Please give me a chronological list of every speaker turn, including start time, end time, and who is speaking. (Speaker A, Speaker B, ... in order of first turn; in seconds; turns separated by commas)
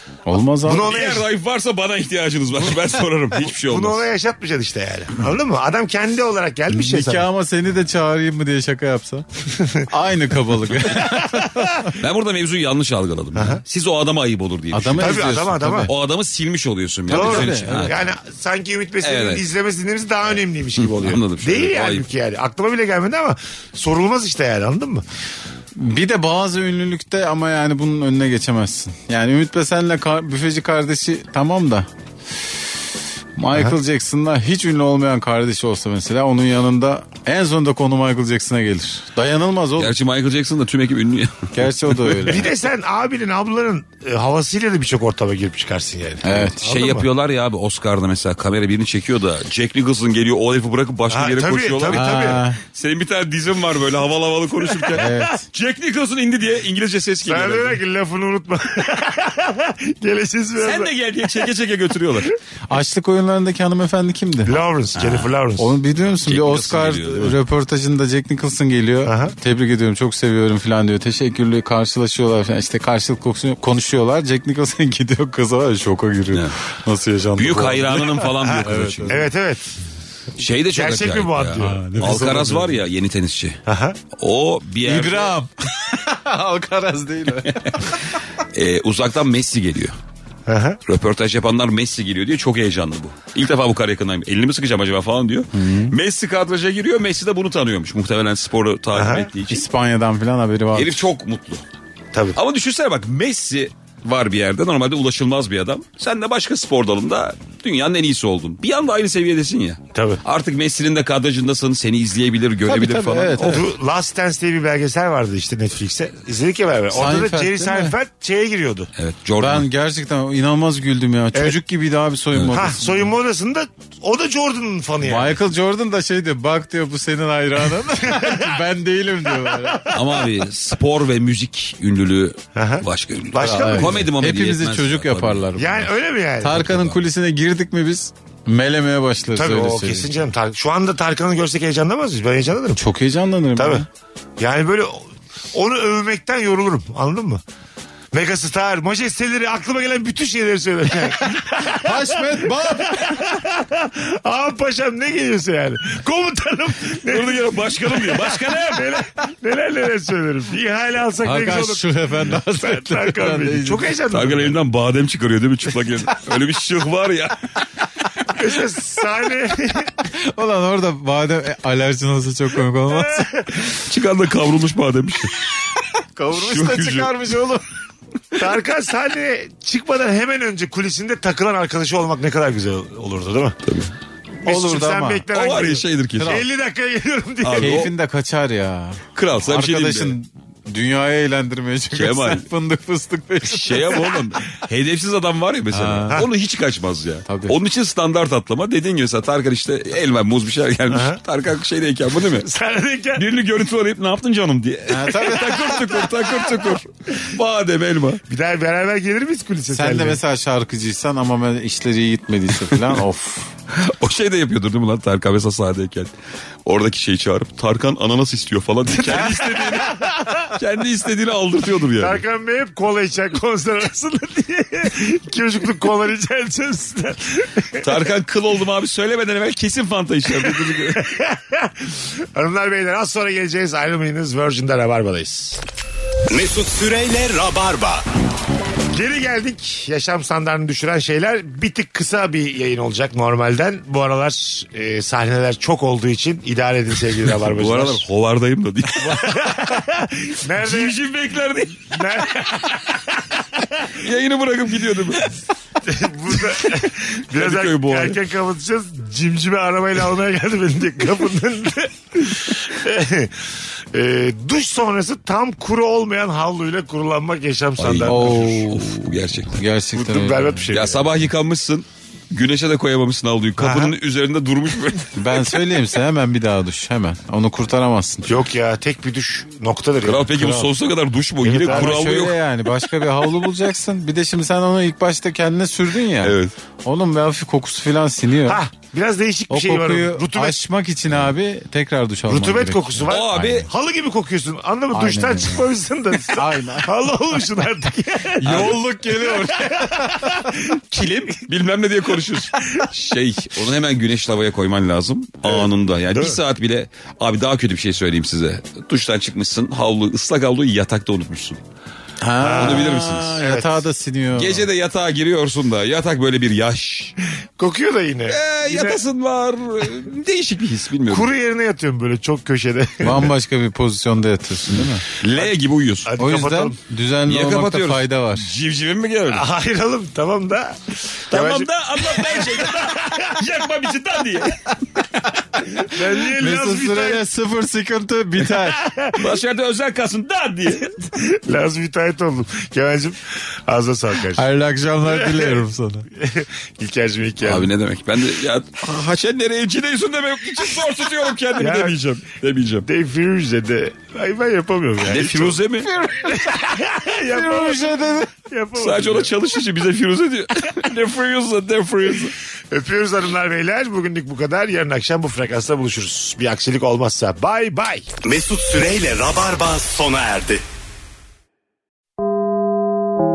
Speaker A: 0.2-0.9, Speaker B: 0.6-1.2, Speaker C: 0.8-4.0, Speaker B: 3.6-7.2, Speaker A: 6.7-9.3, Speaker B: 9.5-9.9, Speaker A: 9.9-11.4, Speaker B: 10.8-11.9, Speaker C: 11.8-18.1, Speaker B: 13.3-13.6, Speaker A: 14.7-15.9, Speaker B: 15.0-15.9, Speaker A: 17.1-18.1, Speaker B: 17.1-25.0, Speaker C: 19.0-19.4, Speaker C: 20.8-22.0, Speaker A: 25.7-31.9, Speaker A: 33.4-40.0, Speaker C: 39.8-42.3, Speaker A: 41.5-42.5, Speaker B: 42.3-47.0, Speaker A: 46.2-46.6, Speaker C: 46.6-57.8, Speaker B: 51.1-52.4, Speaker A: 51.9-52.6, Speaker B: 54.6-55.4, Speaker A: 54.9-55.4, Speaker B: 57.2-60.9, Speaker C: 60.6-62.3, Speaker A: 62.7-64.5, Speaker B: 64.4-65.7, Speaker C: 65.0-65.2, Speaker A: 65.6-79.3, Speaker C: 66.2-67.4, Speaker B: 69.0-69.3, Speaker C: 77.3-79.2, Speaker B: 78.3-79.6, Speaker C: 80.4-83.6, Speaker B: 80.7-82.3, Speaker A: 81.6-82.8, Speaker B: 83.7-84.0, Speaker C: 84.1-85.3, Speaker A: 84.8-88.0, Speaker C: 88.5-89.9, Speaker B: 90.5-90.8, Speaker C: 90.8-99.6, Speaker A: 95.5-95.9, Speaker B: 98.9-99.3, Speaker A: 99.5-101.1, Speaker C: 100.7-101.6, Speaker B: 102.1-102.4, Speaker C: 102.3-113.6, Speaker B: 109.9-110.2, Speaker A: 112.7-113.6, Speaker B: 113.4-118.9, Speaker A: 116.9-117.9, Speaker C: 119.0-119.6, Speaker A: 119.4-123.1, Speaker B: 122.5-125.4, Speaker A: 125.0-129.9, Speaker B: 128.0-128.6, Speaker C: 129.9-135.4, Speaker B: 132.5-134.0, Speaker A: 133.4-140.1, Speaker B: 135.6-137.0, Speaker B: 139.3-142.8, Speaker A: 142.7-143.8, Speaker B: 143.6-143.8, Speaker B: 144.4-147.4, Speaker B: 148.1-164.6, Speaker A: 151.7-153.2, Speaker C: 157.1-159.0, Speaker A: 161.2-164.0, Speaker C: 164.1-167.5, Speaker B: 168.3-169.9, Speaker A: 170.0-173.3, Speaker B: 172.9-173.7, Speaker C: 173.7-175.3, Speaker A: 175.9-177.7, Speaker C: 176.3-177.1, Speaker B: 178.3-183.6, Speaker C: 183.6-183.9, Speaker A: 184.4-185.3, Speaker B: 184.4-187.9, Speaker C: 185.3-186.4, Speaker A: 186.2-186.4, Speaker C: 187.4-187.9, Speaker A: 187.6-194.1, Speaker C: 189.1-190.1, Speaker C: 191.9-192.4, Speaker C: 193.4-202.5, Speaker A: 195.7-196.2, Speaker A: 197.3-197.6, Speaker B: 200.9-201.2, Speaker B: 202.4-203.2, Speaker C: 203.2-208.2, Speaker A: 204.9-206.0, Speaker B: 208.3-210.2, Speaker A: 209.7-213.5, Speaker C: 213.7-216.1, Speaker C: 216.6-222.2, Speaker B: 219.0-220.5, Speaker B: 222.0-227.9, Speaker C: 227.8-231.0, Speaker B: 230.4-235.6, Speaker D: 236.3-238.1, Speaker B: 238.9-248.0, Speaker C: 247.3-249.6, Speaker B: 248.9-251.0, Speaker C: 250.5-252.4, Speaker B: 251.9-254.0, Speaker C: 253.9-255.3, Speaker B: 255.8-268.7, Speaker C: 256.4-258.2, Speaker C: 267.8-269.6, Speaker A: 268.1-268.9, Speaker A: 269.5-270.7, Speaker B: 269.9-271.1, Speaker C: 270.7-275.3, Speaker B: 273.6-273.9, Speaker A: 275.1-278.3, Speaker B: 278.3-280.3, Speaker C: 280.0-282.4, Speaker A: 280.3-280.7, Speaker B: 281.4-282.2, Speaker A: 281.7-288.6, Speaker C: 286.2-286.5, Speaker B: 288.5-290.6, Speaker A: 289.5-293.7, Speaker B: 292.3-301.4, Speaker C: 293.1-293.7, Speaker A: 294.9-295.7, Speaker A: 296.3-297.1, Speaker A: 298.4-300.5, Speaker C: 298.4-298.8, Speaker C: 301.3-311.6, Speaker B: 305.4-306.4, Speaker A: 312.2-314.7, Speaker B: 312.4-313.8, Speaker C: 312.5-313.4, Speaker C: 314.3-317.1, Speaker B: 317.6-319.0, Speaker C: 318.3-321.3, Speaker B: 321.1-323.3, Speaker A: 323.0-325.0, Speaker C: 325.2-326.1, Speaker B: 326.1-326.8, Speaker A: 326.2-328.5, Speaker C: 327.2-329.4, Speaker B: 329.3-333.4, Speaker C: 331.3-334.6, Speaker B: 335.8-337.2, Speaker A: 336.3-338.8, Speaker B: 338.7-339.2, Speaker C: 339.1-340.9, Speaker B: 341.1-344.4, Speaker A: 344.3-346.1, Speaker B: 345.1-345.6, Speaker B: 346.1-347.7, Speaker C: 347.4-352.8, Speaker B: 351.6-352.0, Speaker B: 352.8-355.6, Speaker C: 355.1-355.9, Speaker A: 355.8-358.3, Speaker B: 356.2-359.3, Speaker C: 358.8-362.3, Speaker B: 362.7-368.1, Speaker D: 368.2-370.6